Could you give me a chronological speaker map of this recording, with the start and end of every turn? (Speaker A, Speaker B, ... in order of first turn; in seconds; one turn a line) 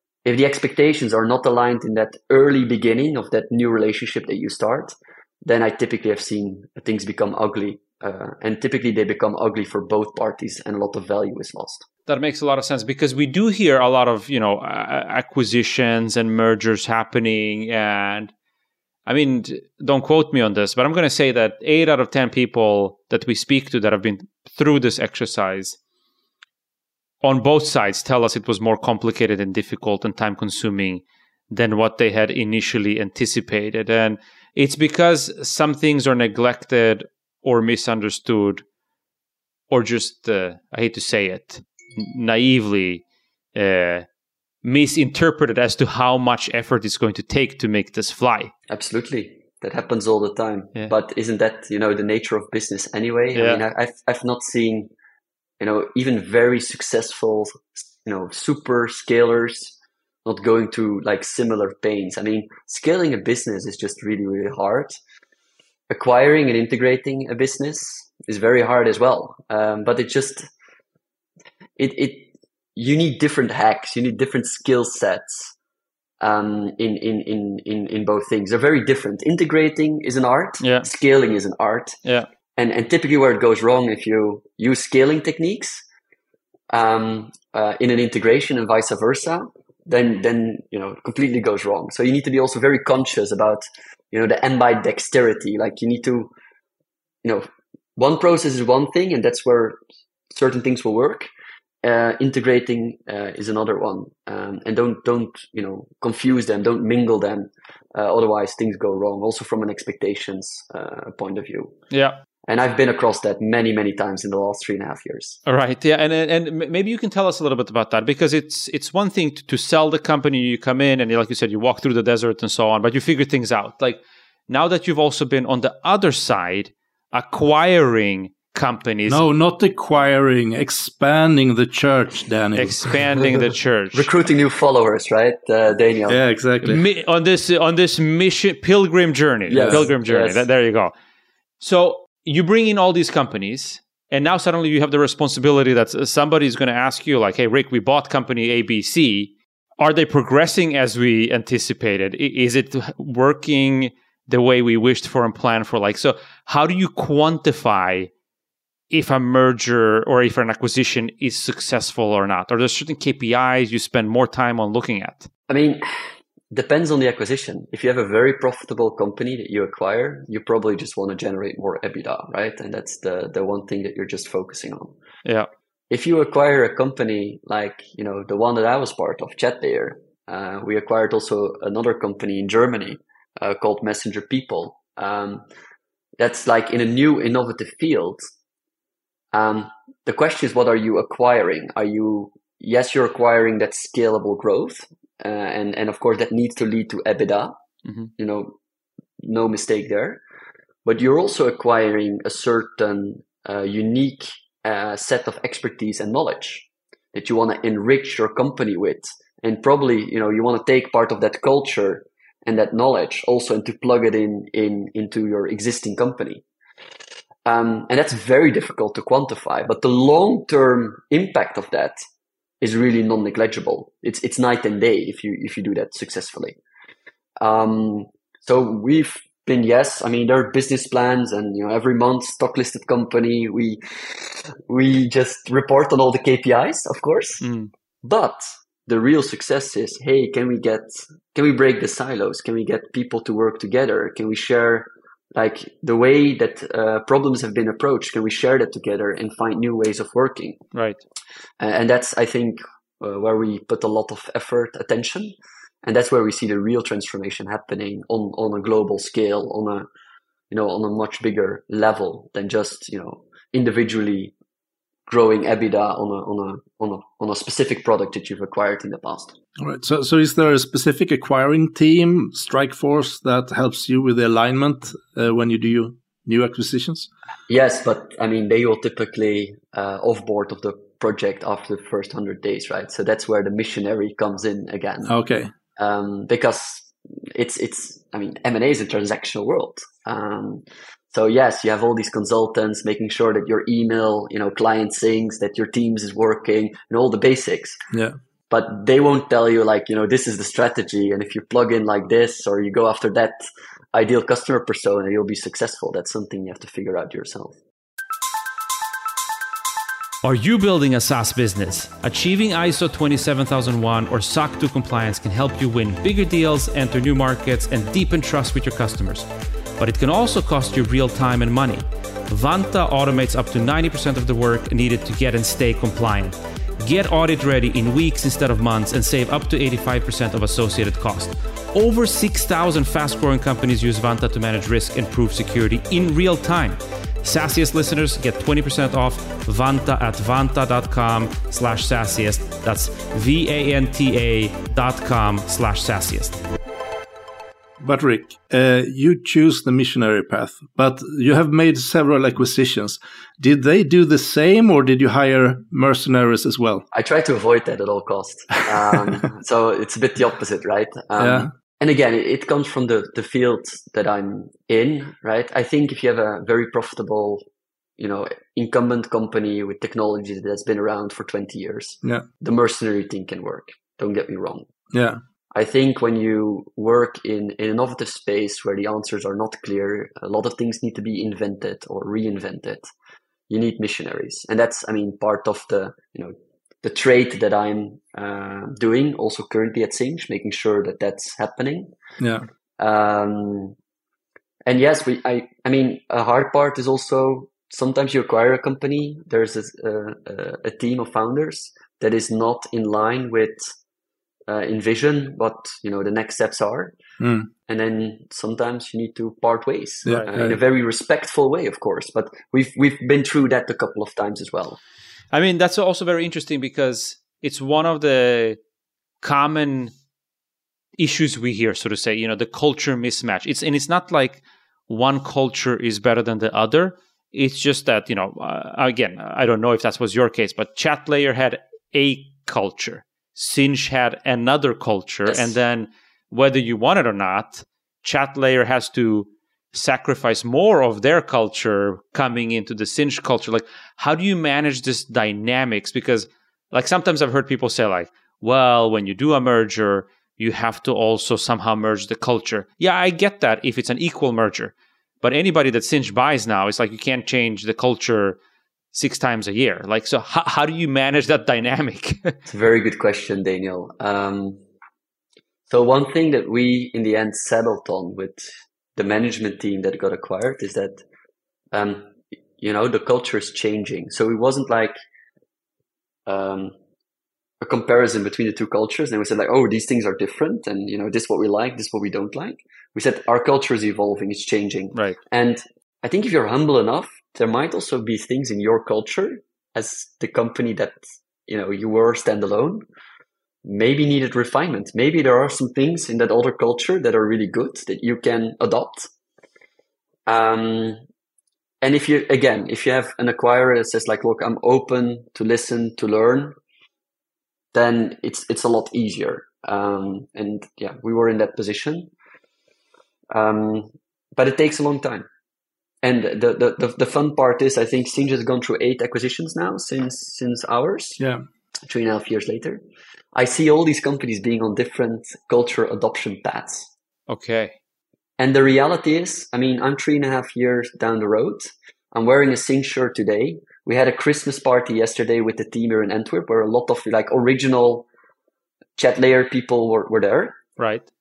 Speaker A: 0.2-11.8
Speaker B: 12.1-18.3
Speaker B: 19.1-25.8
Speaker B: 27.2-38.6
Speaker B: 39.7-43.0
Speaker B: 43.5-44.1
Speaker B: 44.6-48.5
Speaker A: 48.7-54.9
Speaker B: 53.3-53.6
Speaker A: 55.6-65.0
Speaker A: 65.9-70.5
Speaker A: 71.8-75.5
Speaker A: 76.2-82.0
Speaker B: 80.6-80.9
Speaker A: 82.6-85.8
Speaker A: 86.7-96.3
Speaker A: 97.2-99.8
Speaker A: 100.3-101.3
Speaker A: 101.8-111.7
Speaker B: 111.9-112.2
Speaker A: 112.5-115.4
Speaker B: 115.5-129.2
Speaker C: 129.1-133.0
Speaker B: 132.6-134.1
Speaker A: 133.9-136.2
Speaker C: 136.1-136.8
Speaker B: 136.6-140.9
Speaker A: 139.5-140.4
Speaker C: 139.5-139.8
Speaker B: 141.6-158.1
Speaker B: 158.9-165.3
Speaker A: 165.5-174.9
Speaker A: 175.9-185.4
Speaker A: 186.2-188.3
Speaker A: 189.3-197.6
Speaker A: 198.2-198.6
Speaker A: 199.2-200.2
Speaker A: 200.8-216.4
Speaker A: 217.4-222.0
Speaker A: 222.6-226.6
Speaker A: 227.4-237.4
Speaker B: 237.4-237.7
Speaker A: 238.0-250.6
Speaker B: 250.7-251.0
Speaker A: 251.6-259.9
Speaker A: 260.5-264.3
Speaker A: 265.1-269.4
Speaker C: 269.6-277.1
Speaker A: 277.5-285.1
Speaker C: 285.1-285.5
Speaker A: 285.8-297.8
Speaker C: 297.9-298.2
Speaker A: 298.5-307.6
Speaker B: 310.2-319.3
Speaker B: 319.8-346.4
Speaker C: 347.8-356.9
Speaker A: 356.9-367.5
Speaker C: 361.2-361.5
Speaker A: 368.0-374.7
Speaker C: 374.9-375.2
Speaker A: 375.5-382.9
Speaker A: 383.5-391.9
Speaker C: 392.2-392.4
Speaker A: 392.8-393.8
Speaker A: 394.7-403.7
Speaker A: 404.5-407.0
Speaker C: 407.2-407.5
Speaker A: 407.7-414.8
Speaker C: 410.1-410.6
Speaker B: 415.3-418.6
Speaker B: 419.2-419.9
Speaker B: 421.0-458.4
Speaker A: 435.3-435.6
Speaker B: 458.9-462.4
Speaker A: 462.5-464.6
Speaker A: 465.7-471.0
Speaker A: 471.7-474.9
Speaker A: 476.3-476.7
Speaker A: 477.6-492.8
Speaker A: 493.6-499.1
Speaker A: 500.3-501.0
Speaker A: 501.8-506.6
Speaker A: 507.7-512.1
Speaker A: 513.3-515.3
Speaker A: 516.0-521.2
Speaker C: 521.2-521.5
Speaker A: 521.9-522.8
Speaker A: 523.4-526.9
Speaker B: 527.3-527.8
Speaker A: 528.4-538.1
Speaker A: 539.0-540.6
Speaker B: 540.8-541.1